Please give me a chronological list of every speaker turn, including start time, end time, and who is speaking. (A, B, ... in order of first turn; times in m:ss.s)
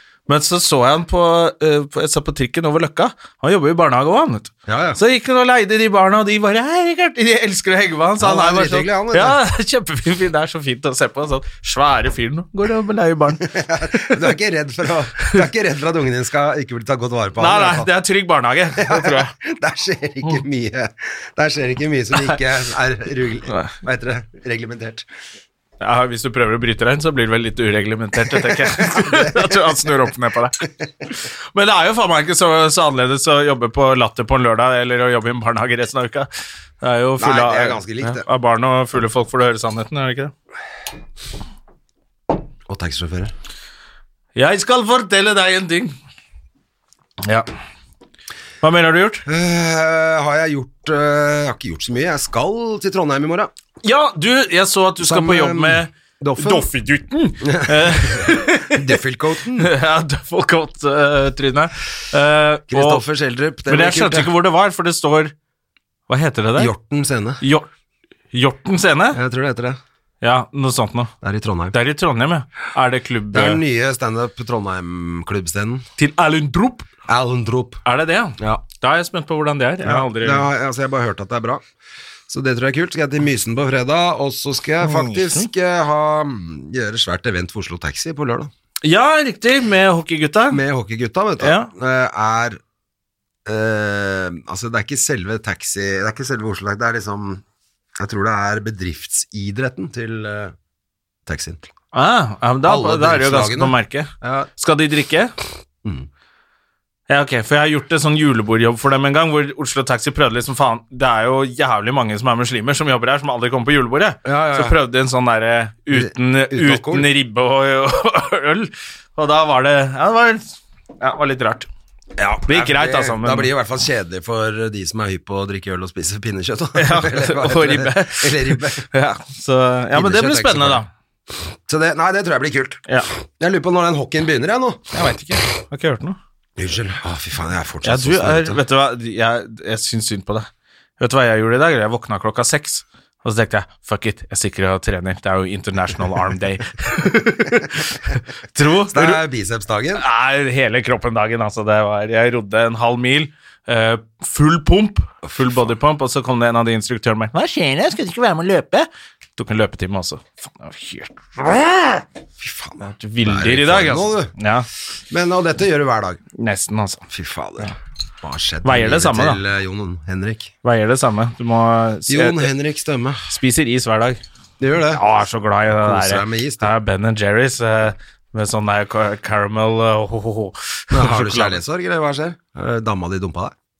0:00.3-0:14.3 A
0:04.7-0:05.0 B
0:08.2-0:09.4 B
0:13.4-0:17.9 B
0:17.4-0:19.3 A
0:18.8-0:25.0 B
0:23.5-0:23.7 A
0:25.8-0:36.3 A
0:28.5-0:29.7 B
0:36.8-0:40.3 A
0:37.2-0:38.2 B
0:42.7-0:43.3 B
0:44.4-0:45.9 A
0:48.6-0:49.2 A
0:49.2-0:53.5 B
0:53.8-0:58.9 A
0:55.0-0:56.7 B
0:57.4-0:59.7 B
0:59.6-1:03.0 A
1:02.7-1:04.3 B
1:03.7-1:05.3 A
1:06.1-1:06.7 A
1:06.6-1:07.4 B
1:07.4-1:07.7 A
1:08.3-1:09.2 A
1:09.1-1:09.8 B
1:10.2-1:11.1 A
1:11.2-1:11.7 B
1:11.7-1:13.6 A
1:13.3-1:15.8 B
1:16.0-1:16.9 A
1:17.1-1:17.8 B
1:17.8-1:20.5 A
1:18.4-1:18.6 B
1:19.8-1:21.6 B
1:22.3-1:28.5 B
1:24.8-1:25.5 A
1:28.8-1:30.6 A
1:30.5-1:32.6 B
1:31.4-1:31.7 A
1:33.4-1:37.4 B
1:38.0-1:40.5 B
1:41.2-1:41.7 B
1:41.9-1:45.3 A
1:42.6-1:44.5 B
1:47.1-2:01.7 A
1:54.2-1:54.8 B
1:55.9-1:57.1 B
2:02.2-2:08.9 B
2:02.5-2:03.5 A
2:06.8-2:10.9 A
2:09.9-2:10.8 B
2:11.7-2:12.8 B
2:13.4-2:14.9 B
2:14.9-2:16.2 A
2:16.6-2:18.6 B
2:17.8-2:20.5 A
2:21.0-2:29.2 A
2:28.9-2:30.0 B
2:30.0-2:42.0 A
2:35.2-2:35.6 B
2:42.4-2:44.3 B
2:42.9-2:44.7 A
2:45.1-2:46.2 B
2:46.4-2:47.0 A
2:47.1-2:50.5 B
2:48.6-2:49.4 A
2:50.6-2:52.5 A
2:52.1-2:53.2 B
2:53.3-2:54.2 A
2:54.6-2:55.0 B
2:54.9-3:01.6 A
2:55.7-2:56.7 B
3:00.9-3:03.5 B